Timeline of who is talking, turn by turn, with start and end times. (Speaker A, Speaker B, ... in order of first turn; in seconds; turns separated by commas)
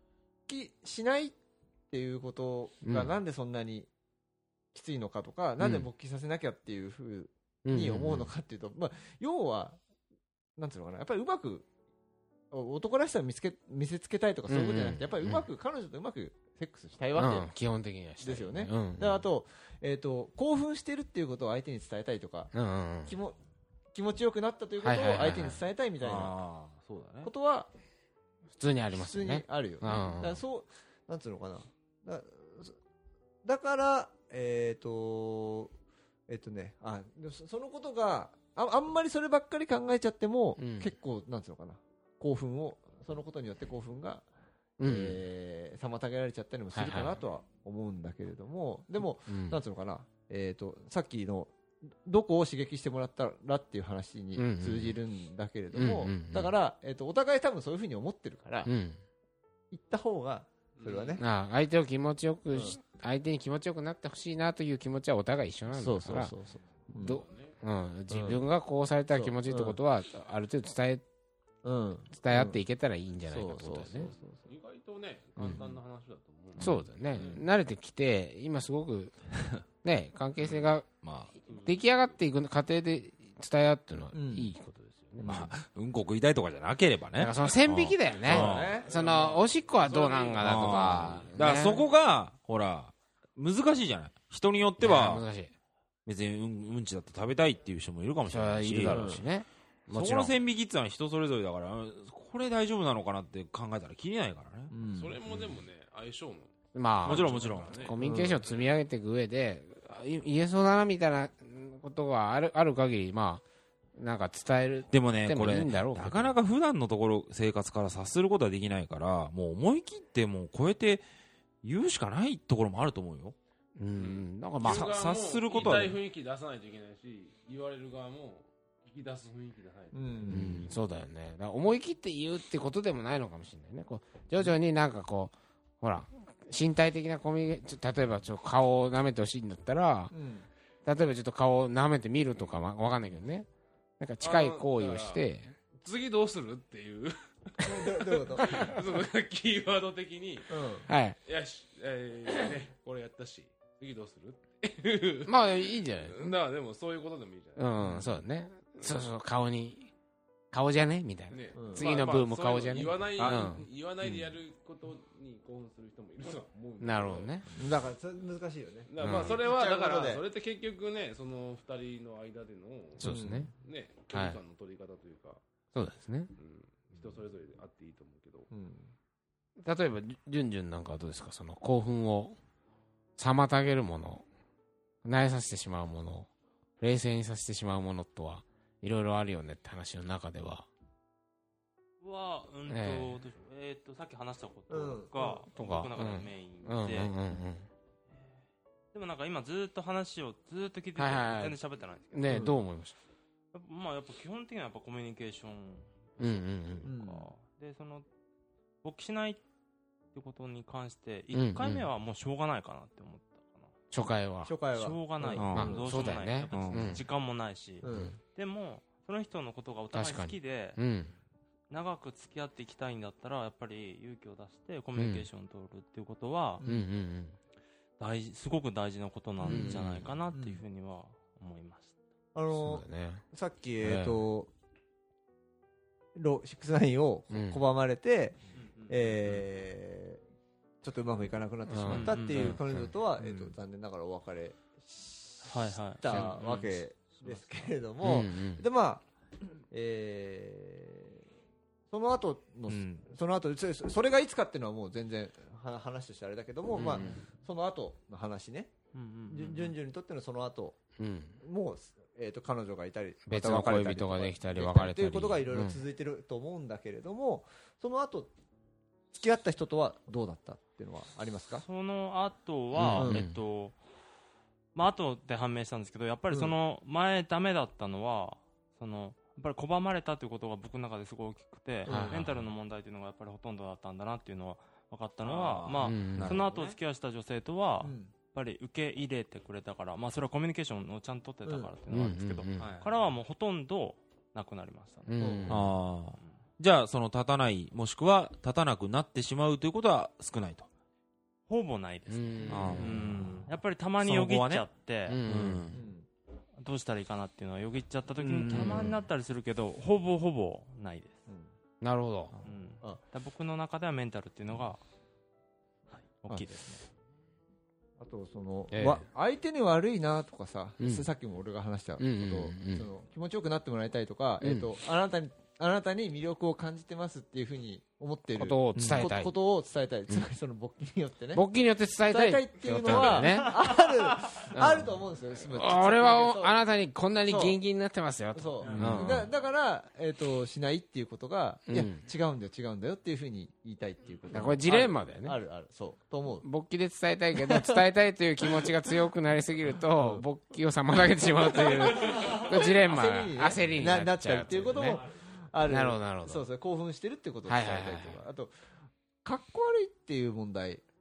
Speaker A: 0.5-1.4, Speaker A: 1.9-3.9, Speaker B: 2.8-3.1, Speaker A: 4.7-9.8, Speaker B: 5.6-5.9, Speaker B: 7.6-8.3, Speaker A: 10.6-11.7, Speaker A: 12.5-17.5, Speaker B: 14.5-15.4, Speaker B: 17.1-19.2, Speaker A: 18.2-22.5, Speaker B: 22.5-23.1, Speaker A: 23.1-23.4, Speaker A: 23.9-26.4, Speaker B: 24.8-25.6, Speaker C: 26.0-27.3, Speaker A: 27.2-27.7, Speaker B: 28.6-30.4, Speaker A: 28.9-32.8, Speaker A: 33.4-35.7, Speaker A: 36.3-44.2, Speaker B: 40.6-40.9, Speaker B: 44.8-45.2, Speaker A: 44.8-58.7, Speaker B: 46.7-47.2, Speaker B: 49.3-49.6, Speaker B: 54.4-55.0, Speaker B: 55.7-56.5, Speaker B: 58.6-59.0, Speaker A: 59.7-61.2, Speaker D: 60.8-61.2, Speaker B: 61.2-66.3, Speaker A: 62.5-62.8, Speaker A: 65.7-67.2, Speaker B: 66.9-71.0, Speaker D: 67.0-67.5, Speaker A: 68.1-68.4, Speaker A: 69.1-69.8, Speaker A: 71.6-72.6, Speaker B: 72.1-74.1, Speaker A: 73.3-74.4, Speaker D: 74.0-77.4, Speaker A: 75.5-75.8, Speaker B: 76.6-79.1, Speaker B: 79.7-80.9, Speaker C: 80.4-81.3, Speaker D: 81.5-82.0, Speaker B: 81.6-85.5, Speaker A: 84.1-84.5, Speaker C: 85.2-88.8, Speaker B: 87.2-91.8, Speaker A: 88.3-88.9, Speaker D: 88.5-91.4, Speaker C: 90.4-95.2, Speaker B: 94.8-95.5, Speaker C: 96.0-99.2, Speaker B: 98.3-100.3, Speaker A: 98.9-99.2, Speaker C: 99.9-104.7, Speaker A: 104.7-105.2, Speaker D: 104.9-108.7, Speaker B: 106.7-113.4, Speaker C: 107.0-107.8, Speaker A: 108.0-108.4, Speaker B: 114.0-116.3, Speaker C: 114.9-121.0, Speaker C: 121.6-123.3, Speaker B: 123.8-124.9, Speaker D: 124.0-130.5, Speaker C: 124.6-126.0, Speaker A: 129.9-130.7, Speaker B: 130.3-140.1, Speaker A: 140.1-140.5, Speaker B: 140.8-143.5, Speaker B: 144.0-145.5, Speaker D: 144.2-145.2, Speaker D: 145.8-157.7, Speaker A: 147.6-148.8, Speaker A: 150.5-150.9, Speaker B: 150.9-151.2, Speaker B: 155.2-156.3, Speaker B: 157.6-159.9, Speaker A: 157.8-158.2, Speaker B: 160.5-163.7, Speaker D: 161.3-167.6, Speaker A: 161.5-162.0, Speaker A: 163.2-163.4, Speaker B: 166.8-167.4, Speaker A: 167.5-170.2, Speaker D: 168.9-175.4, Speaker B: 169.0-169.4, Speaker B: 173.0-173.5, Speaker A: 173.0-173.5, Speaker B: 174.1-174.4, Speaker B: 175.7-176.3, Speaker D: 176.3-178.5, Speaker A: 178.5-178.9, Speaker B: 179.6-182.3, Speaker B: 183.2-184.2, Speaker B: 185.0-186.3, Speaker B: 186.8-190.7, Speaker E: 192.0-197.2, Speaker B: 192.7-193.2, Speaker A: 194.7-195.4, Speaker B: 195.5-197.7, Speaker E: 198.9-202.5, Speaker B: 200.9-202.9, Speaker A: 202.2-202.5, Speaker E: 203.5-208.1, Speaker B: 206.2-206.9, Speaker A: 206.8-207.3, Speaker E: 208.8-209.4, Speaker E: 210.1-213.7, Speaker B: 211.3-211.8, Speaker B: 213.9-214.5, Speaker A: 214.4-216.0, Speaker E: 214.7-220.8, Speaker C: 215.3-215.8, Speaker B: 215.5-217.0, Speaker C: 216.5-217.0, Speaker A: 217.8-218.2, Speaker B: 219.9-221.1, Speaker E: 221.7-226.6, Speaker B: 224.9-225.3, Speaker A: 226.6-226.8, Speaker B: 226.6-227.3, Speaker E: 228.0-231.9, Speaker B: 229.4-230.1, Speaker A: 229.4-230.6, Speaker A: 232.3-234.5, Speaker B: 232.5-233.2, Speaker B: 233.8-234.2, Speaker A: 236.1-240.2, Speaker B: 237.3-237.6, Speaker E: 238.6-239.4, Speaker A: 240.8-249.0, Speaker B: 241.7-242.9, Speaker E: 241.9-242.6, Speaker E: 245.4-247.7, Speaker B: 248.0-248.6, Speaker A: 249.7-251.2, Speaker A: 251.9-258.7, Speaker C: 252.7-253.1, Speaker B: 256.8-257.1, Speaker E: 256.9-257.2, Speaker E: 258.9-259.7, Speaker A: 259.3-260.8, Speaker B: 261.0-261.4, Speaker A: 261.4-268.3, Speaker B: 263.3-265.8, Speaker A: 269.1-271.6, Speaker E: 271.6-273.8, Speaker C: 272.8-273.1, Speaker B: 272.8-273.4, Speaker A: 273.0-273.2, Speaker E: 274.7-295.1, Speaker B: 281.9-282.2, Speaker A: 281.9-282.3, Speaker C: 285.2-286.8, Speaker B: 285.8-286.4, Speaker A: 287.8-288.1, Speaker A: 291.4-291.7, Speaker B: 291.9-292.7, Speaker C: 292.6-292.9, Speaker B: 295.1-295.7, Speaker A: 295.2-295.6, Speaker C: 295.5-300.7, Speaker E: 301.5-305.2, Speaker B: 302.1-303.2, Speaker C: 302.5-304.7, Speaker B: 305.1-305.8, Speaker C: 305.2-305.8, Speaker A: 305.7-306.1, Speaker E: 306.6-311.2, Speaker C: 308.2-309.0, Speaker B: 308.5-308.9, Speaker A: 311.3-311.5, Speaker B: 311.8-312.3, Speaker E: 312.4-314.8, Speaker E: 316.0-316.8, Speaker A: 318.0-331.4, Speaker B: 318.7-319.0, Speaker B: 320.8-321.1, Speaker B: 322.0-322.9, Speaker B: 324.4-324.7, Speaker B: 328.4-329.3, Speaker C: 328.8-329.1, Speaker B: 331.3-333.6, Speaker A: 332.1-336.6, Speaker B: 334.5-334.9, Speaker B: 335.5-339.3, Speaker A: 337.2-337.6, Speaker A: 338.3-346.5, Speaker E: 338.6-338.9, Speaker C: 338.7-339.3, Speaker B: 341.7-342.0, Speaker B: 344.3-345.4, Speaker B: 346.4-355.0, Speaker A: 347.4-347.7, Speaker A: 350.0-350.2, Speaker A: 351.6-360.8, Speaker B: 355.6-356.4, Speaker B: 357.4-358.2